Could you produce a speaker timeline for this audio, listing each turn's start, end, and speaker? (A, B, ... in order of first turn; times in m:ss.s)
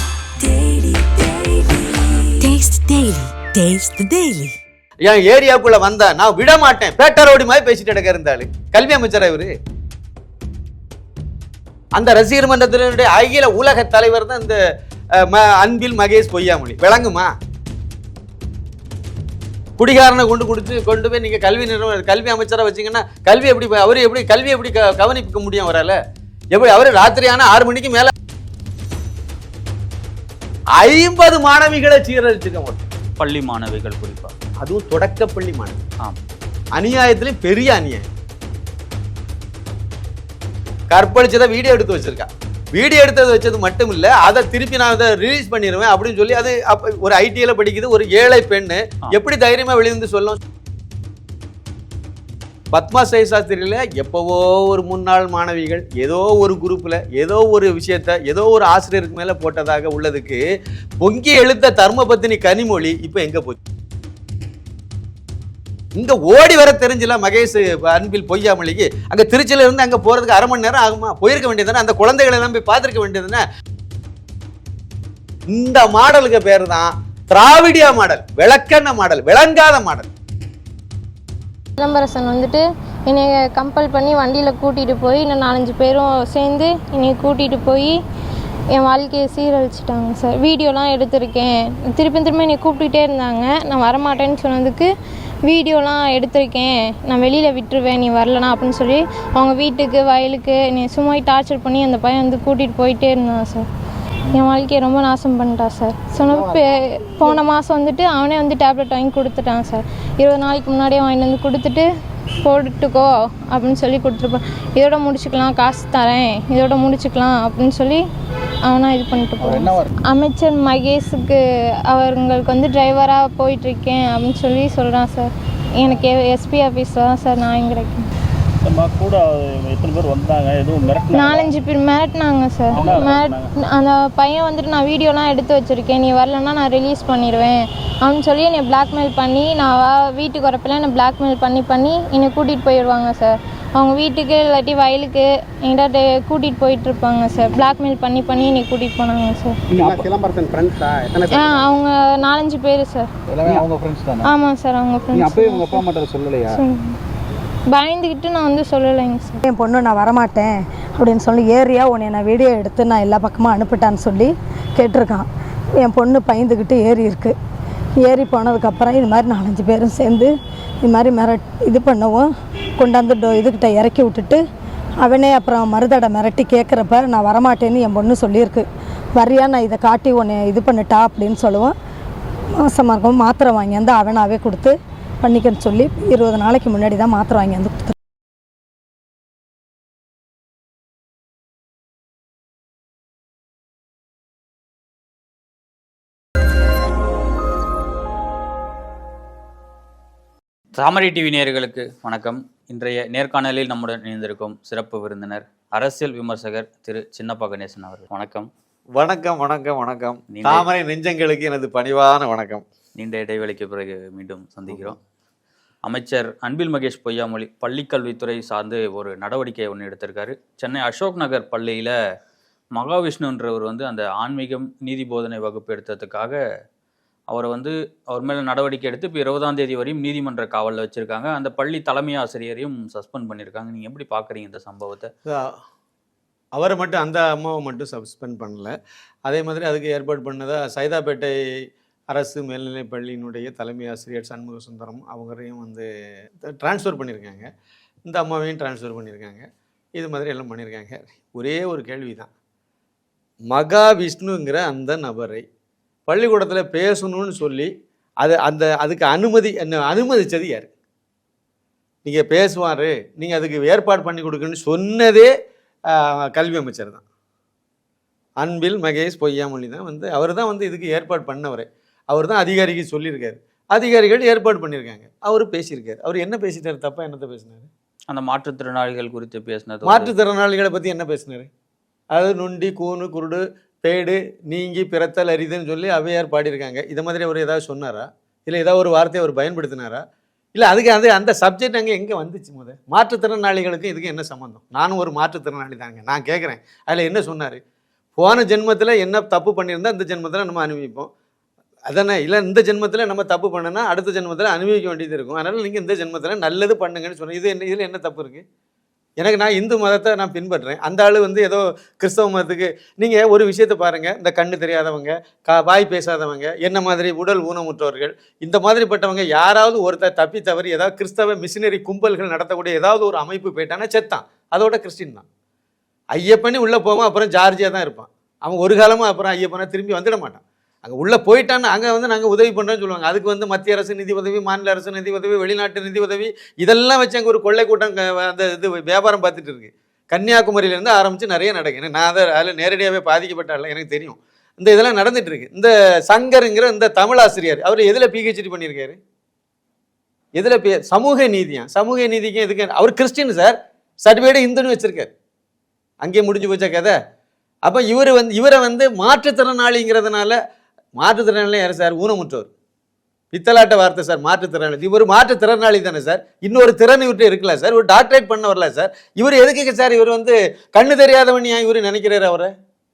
0:00.4-0:04.6 A
0:05.0-0:09.5 B
0:11.9-0:14.6 B
0:15.2-0:17.3 B
0:19.8-0:26.0 B
0:26.5-0:28.1 B
0:30.8-0:32.8 B
0:33.2-0:34.3 C
0:34.6-0:35.8 B
0:36.8-0:38.0 B
0:40.9-0:50.4 B
0:52.7-1:00.4 B
1:01.0-1:03.6 B
1:06.0-1:13.4 B
1:15.5-1:20.1 B
1:21.8-1:28.0 D
1:28.7-1:34.9 D
1:35.5-1:43.7 D
1:44.3-1:51.8 D
1:46.3-1:46.6 E
1:52.4-1:58.0 D
1:58.7-2:08.1 D
1:59.4-1:59.9 E
2:08.6-2:11.5 F
2:11.1-2:30.0 D
2:12.7-2:13.5 F
2:29.7-2:31.7 E
2:31.3-2:33.1 D
2:33.3-2:34.3 E
2:34.2-2:35.9 D
2:35.1-2:36.6 E
2:36.5-2:37.0 D
2:37.7-2:39.4 D
2:39.4-2:47.4 G
2:48.0-2:50.3 G
2:50.8-2:52.3 G
2:52.8-2:54.4 G
2:55.0-3:01.8 G
3:02.6-3:07.9 G
3:20.8-3:28.5 C
3:29.0-3:32.6 B
3:30.3-3:30.7 C
3:33.0-3:35.0 C
3:35.8-3:41.9 C
3:42.8-3:46.4 C
3:47.3-3:55.1 C
3:55.3-3:55.6 B
3:56.6-3:58.8 B
3:59.3-4:01.4 B
4:02.1-4:05.9 B
4:06.6-4:07.5 B
4:08.1-4:12.3 B
4:13.5-4:15.4 B
4:16.1-4:17.7 B
4:18.2-4:20.7 B
4:22.0-4:25.3 B
4:25.9-4:27.0 B
4:28.4-4:37.7 B
4:38.1-4:40.1 C
4:39.8-4:41.5 B
4:42.1-4:50.0 B
4:50.6-4:57.6 B
4:58.2-5:01.1 B
5:01.9-5:08.4 B
5:09.2-5:25.2 B
5:26.1-5:49.0 B
5:50.4-5:55.1 B
5:56.0-5:57.0 B
5:57.6-6:00.4 B
6:01.0-6:02.5 B
6:03.3-6:12.5 B